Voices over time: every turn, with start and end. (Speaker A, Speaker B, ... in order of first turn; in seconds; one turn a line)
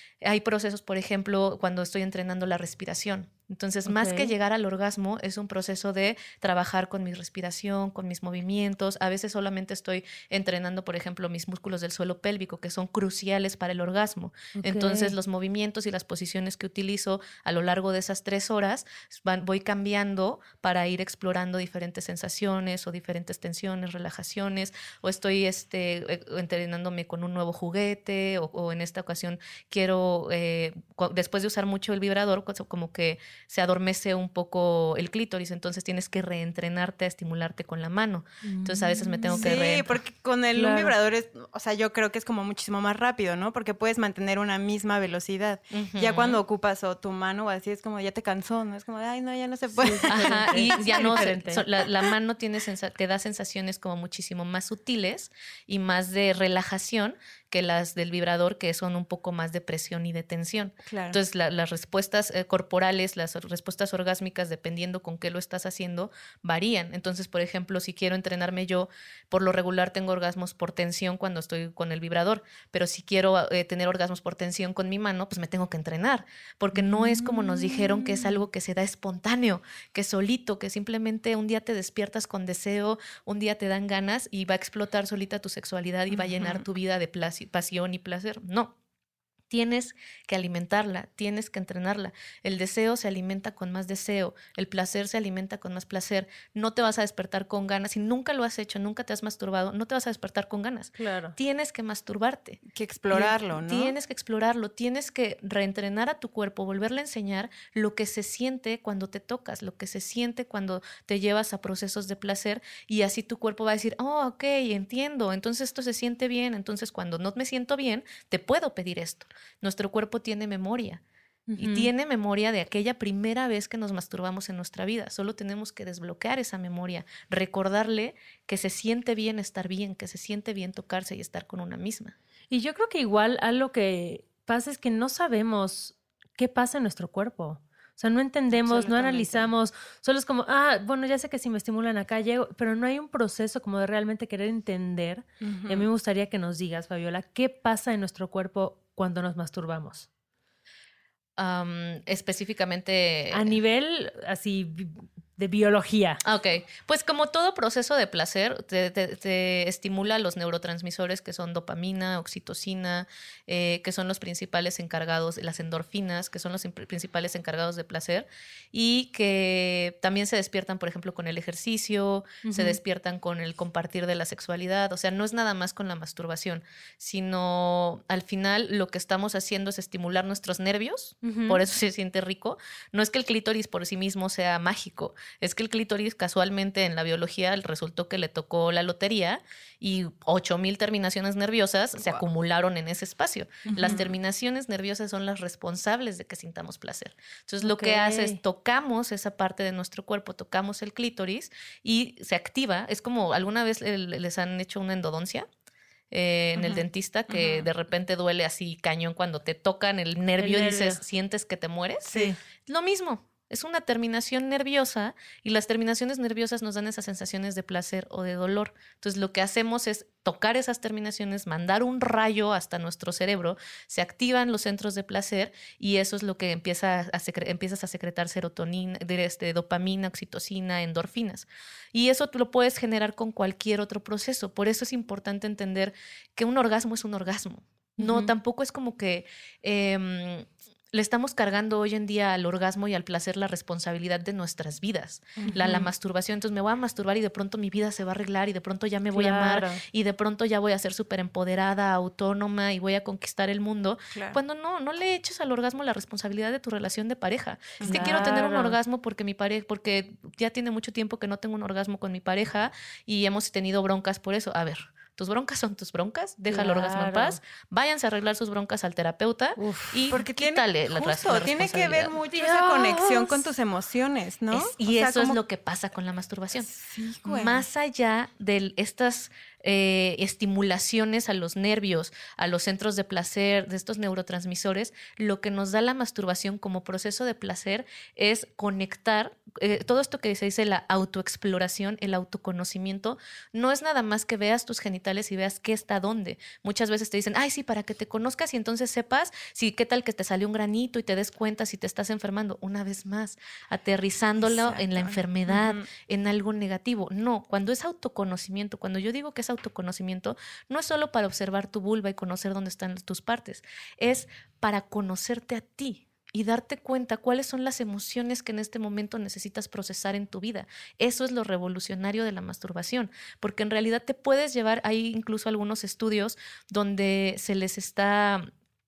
Speaker A: 0.2-40.0
Speaker B: 3.9-4.3
Speaker B: 14.5-15.1
Speaker B: 38.4-39.6
Speaker C: 39.3-50.9
Speaker B: 40.5-40.9
Speaker A: 45.7-46.4
Speaker B: 49.8-51.6
Speaker A: 50.1-88.7
Speaker C: 60.9-61.2
Speaker B: 76.8-77.3
Speaker C: 86.1-86.6
Speaker A: 89.5-102.6
Speaker B: 101.0-101.3
Speaker C: 102.7-103.9
Speaker A: 103.1-121.0
Speaker B: 121.5-121.9
Speaker A: 121.6-132.1
Speaker B: 132.5-150.1
Speaker C: 138.5-139.5
Speaker C: 145.4-145.9
Speaker A: 151.4-153.6
Speaker B: 153.3-156.2
Speaker A: 156.2-205.5
Speaker B: 172.4-172.8
Speaker B: 181.2-181.6
Speaker C: 193.7-194.1
Speaker B: 197.6-198.4
Speaker A: 206.1-273.4
Speaker C: 206.6-207.7
Speaker B: 210.4-211.0
Speaker C: 212.1-212.3
Speaker B: 238.0-238.3
Speaker C: 245.4-245.8
Speaker B: 245.5-245.8
Speaker B: 249.1-249.8
Speaker C: 254.1-254.4
Speaker C: 257.8-258.2
Speaker B: 257.9-258.8
Speaker B: 266.5-267.4
Speaker B: 269.6-270.1
Speaker C: 270.1-275.4
Speaker A: 274.5-276.7
Speaker C: 276.6-277.6
Speaker A: 277.2-328.5
Speaker C: 304.4-305.8